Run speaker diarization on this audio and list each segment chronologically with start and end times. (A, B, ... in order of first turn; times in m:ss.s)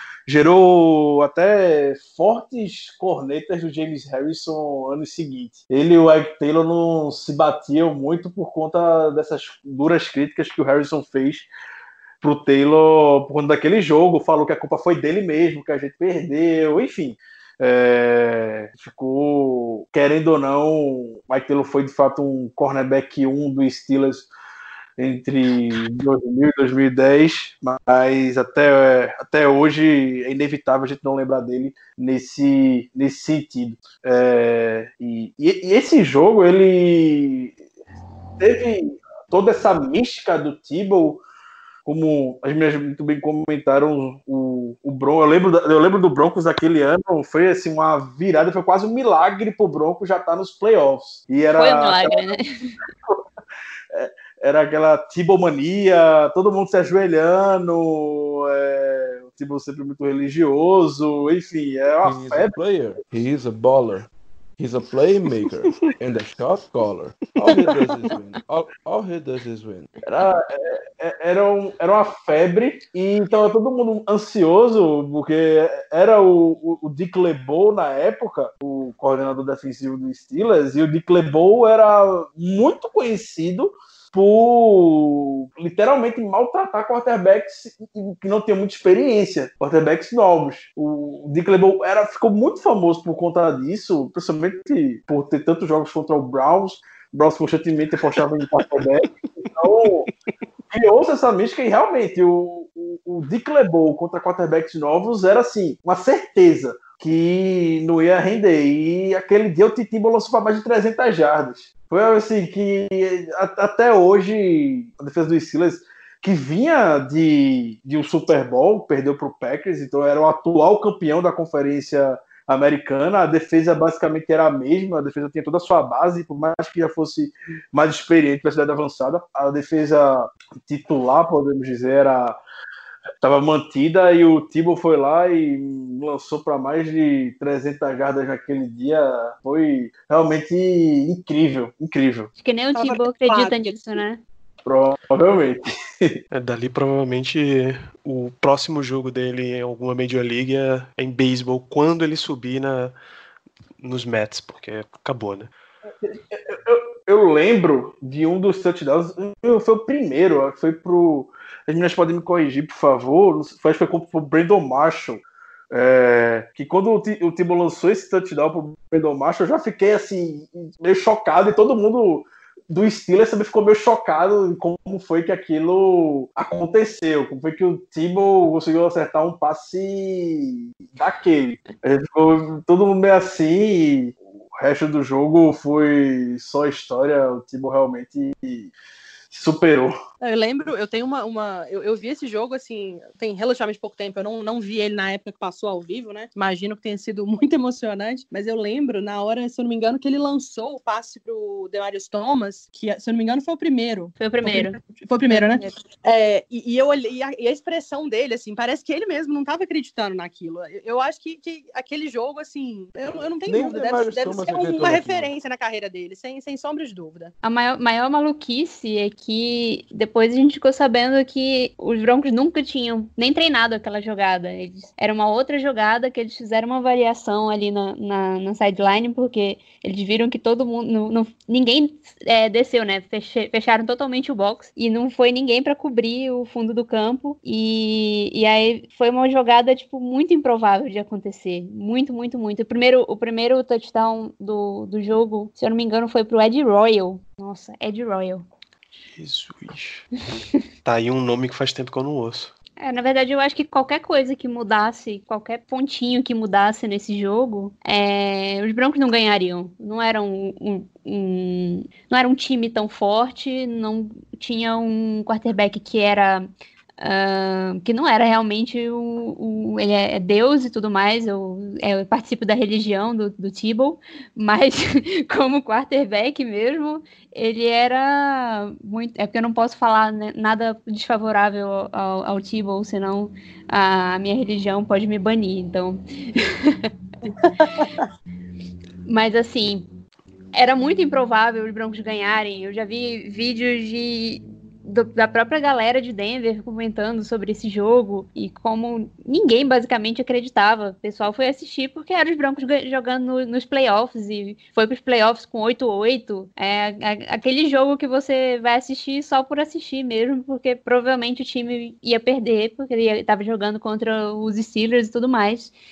0:00.3-0:11.5 A
0:12.2-0:24.3 A
0:25.0-0:37.6 A
0:38.4-0:41.2 A
0:41.9-0:52.3 A
0:51.6-0:52.8 B
0:53.9-1:02.5 A
1:02.0-1:09.9 C
1:07.4-1:08.1 D
1:10.1-1:40.1 A
1:38.2-1:38.9 E
1:40.7-2:12.4 A
2:13.2-2:22.3 A
2:22.4-2:24.2 B
2:22.7-2:24.0 D
2:24.7-2:26.2 A
2:26.3-2:33.0 E
2:33.8-2:35.5 E
2:36.0-3:08.7 A
3:09.3-3:09.9 A
3:10.2-3:37.3 D
3:24.2-3:25.8 B
3:33.5-3:35.3 C
3:37.4-4:08.4 B
4:09.1-4:10.1 E
4:10.8-4:12.5 E
4:12.8-4:26.5 B
4:27.0-4:46.9 B
4:47.6-4:48.0 D
4:49.1-4:49.8 B
4:50.6-5:15.7 B